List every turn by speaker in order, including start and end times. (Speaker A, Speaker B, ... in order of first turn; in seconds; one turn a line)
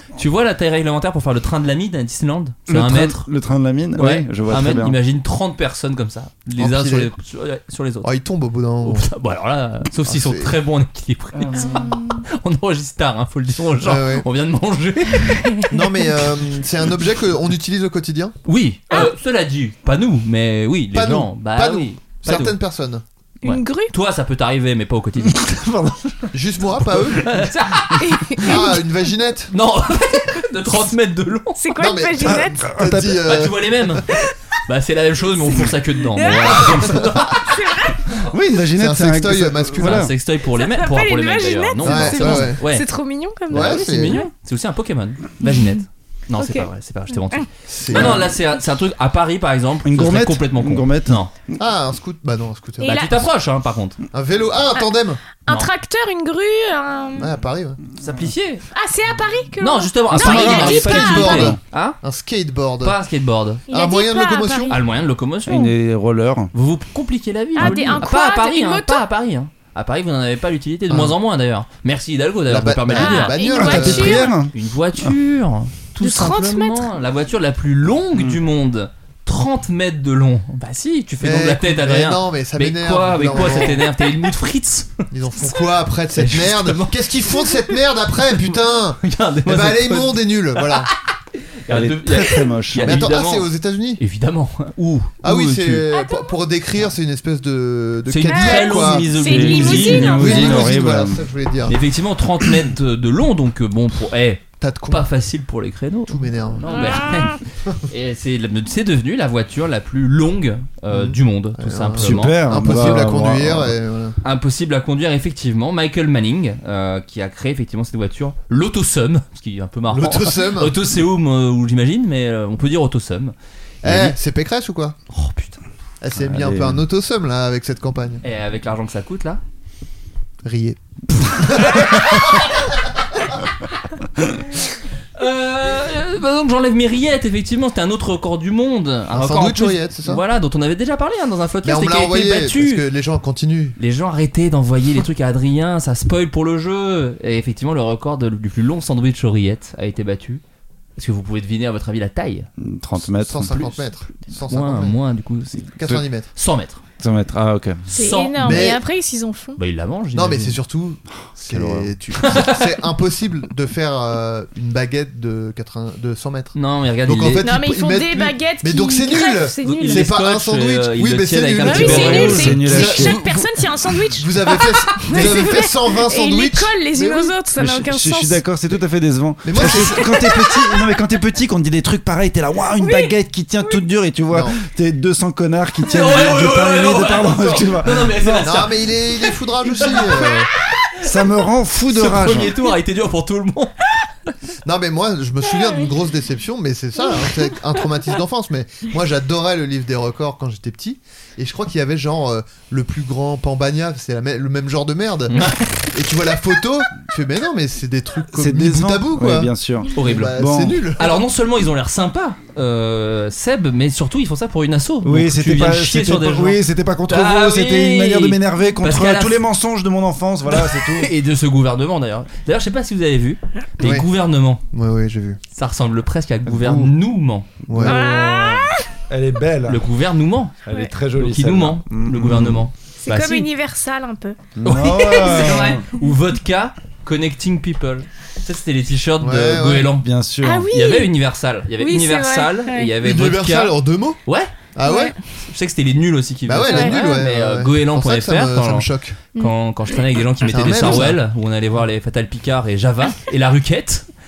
Speaker A: 0.2-3.3
Speaker B: 2.7-5.0
Speaker A: 4.0-8.1
Speaker C: 6.6-7.1
Speaker C: 8.0-9.1
Speaker A: 8.8-15.5
Speaker C: 10.1-10.6
Speaker B: 11.3-11.9
Speaker D: 11.6-12.2
Speaker C: 13.8-14.3
Speaker D: 15.2-16.0
Speaker C: 15.7-18.4
Speaker A: 18.5-22.6
Speaker C: 20.9-23.0
Speaker D: 23.4-23.9
Speaker A: 23.4-25.4
Speaker B: 25.2-27.2
Speaker C: 26.3-27.3
Speaker A: 27.2-28.0
Speaker D: 27.8-28.7
Speaker C: 28.4-29.5
Speaker A: 29.5-31.6
Speaker D: 31.6-32.6
Speaker C: 31.8-34.0
Speaker B: 32.3-33.4
Speaker A: 33.2-34.0
Speaker A: 34.7-37.6
Speaker D: 36.1-38.1
Speaker B: 38.3-40.1
Speaker C: 38.8-40.1
Speaker A: 39.8-42.9
Speaker D: 40.5-44.3
Speaker C: 41.8-42.6
Speaker A: 43.5-51.3
Speaker C: 43.5-44.2
Speaker D: 45.4-45.8
Speaker D: 46.4-46.7
Speaker C: 47.7-48.3
Speaker B: 49.9-51.2
Speaker C: 51.6-53.3
Speaker D: 52.8-53.2
Speaker A: 52.8-54.0
Speaker C: 54.1-55.2
Speaker D: 55.4-57.3
Speaker C: 57.2-57.8
Speaker A: 58.0-58.6
Speaker D: 58.7-61.6
Speaker A: 59.6-62.0
Speaker C: 60.1-63.0
Speaker A: 62.8-63.6
Speaker D: 63.7-64.8
Speaker C: 63.7-64.8
Speaker A: 64.7-65.7
Speaker B: 65.5-66.5
Speaker A: 66.5-85.0
Speaker D: 67.5-69.0
Speaker B: 67.6-68.0
Speaker C: 70.9-71.2
Speaker C: 72.5-74.3
Speaker D: 72.9-74.3
Speaker B: 73.5-75.1
Speaker D: 76.0-76.9
Speaker C: 81.2-83.9
Speaker C: 85.1-90.9
Speaker A: 86.1-87.0
Speaker A: 89.0-90.9
Speaker A: 91.7-95.9
Speaker B: 91.7-93.1
Speaker C: 92.8-94.0
Speaker C: 95.2-101.8
Speaker D: 95.9-96.3
Speaker A: 98.1-100.7
Speaker D: 98.3-100.7
Speaker B: 99.2-101.3
Speaker A: 101.7-113.0
Speaker C: 104.6-105.1
Speaker C: 106.1-107.2
Speaker D: 106.7-107.4
Speaker C: 110.9-114.2
Speaker B: 112.0-113.8
Speaker A: 114.2-124.2
Speaker C: 119.9-120.8
Speaker C: 123.8-125.0
Speaker A: 125.1-125.6
Speaker C: 126.0-128.2
Speaker B: 126.2-126.8
Speaker A: 128.2-129.4
Speaker C: 130.4-132.7
Speaker A: 135.2-142.8
Speaker C: 139.1-140.2
Speaker C: 141.6-143.8
Speaker A: 143.8-150.4
Speaker A: 151.0-152.5
Speaker B: 152.6-153.6
Speaker C: 153.2-155.0
Speaker A: 153.4-153.9
Speaker A: 154.5-155.7
Speaker C: 155.8-156.3
Speaker A: 156.3-156.8
Speaker B: 157.0-157.8
Speaker A: 157.9-158.4
Speaker D: 157.9-159.6
Speaker C: 158.4-158.8
Speaker A: 159.6-160.6
Speaker C: 160.1-177.4
Speaker B: 161.5-161.9
Speaker A: 166.5-167.4
Speaker D: 167.4-170.1
Speaker A: 169.6-172.6
Speaker D: 171.6-178.4
Speaker B: 171.7-173.2
Speaker B: 177.6-188.8
Speaker C: 179.4-180.3
Speaker D: 179.6-180.6
Speaker D: 182.8-183.8
Speaker C: 184.3-184.6
Speaker A: 185.9-188.9
Speaker C: 188.4-190.5
Speaker B: 191.0-192.6
Speaker A: 191.9-193.7
Speaker C: 194.6-205.3
Speaker A: 205.3-205.9
Speaker C: 205.9-211.2
Speaker B: 208.3-210.8
Speaker A: 209.9-210.4
Speaker A: 211.0-219.4
Speaker B: 215.0-221.1
Speaker A: 220.5-224.6
Speaker C: 223.8-224.1
Speaker C: 224.7-225.4
Speaker A: 225.5-227.5
Speaker B: 226.5-226.9
Speaker B: 227.7-229.8
Speaker C: 227.7-228.0
Speaker D: 227.8-228.8
Speaker A: 229.7-230.6
Speaker B: 230.6-232.7
Speaker A: 231.2-233.5
Speaker D: 233.0-234.4
Speaker B: 234.6-235.8
Speaker A: 234.6-240.1
Speaker D: 235.2-235.5
Speaker C: 239.2-239.9
Speaker B: 240.0-240.7
Speaker D: 240.4-241.1
Speaker A: 240.7-244.5
Speaker D: 241.8-242.9
Speaker C: 243.0-244.2
Speaker C: 244.8-245.1
Speaker D: 244.8-245.2
Speaker A: 245.4-254.1
Speaker C: 246.5-249.2
Speaker D: 246.7-247.2
Speaker C: 250.4-251.2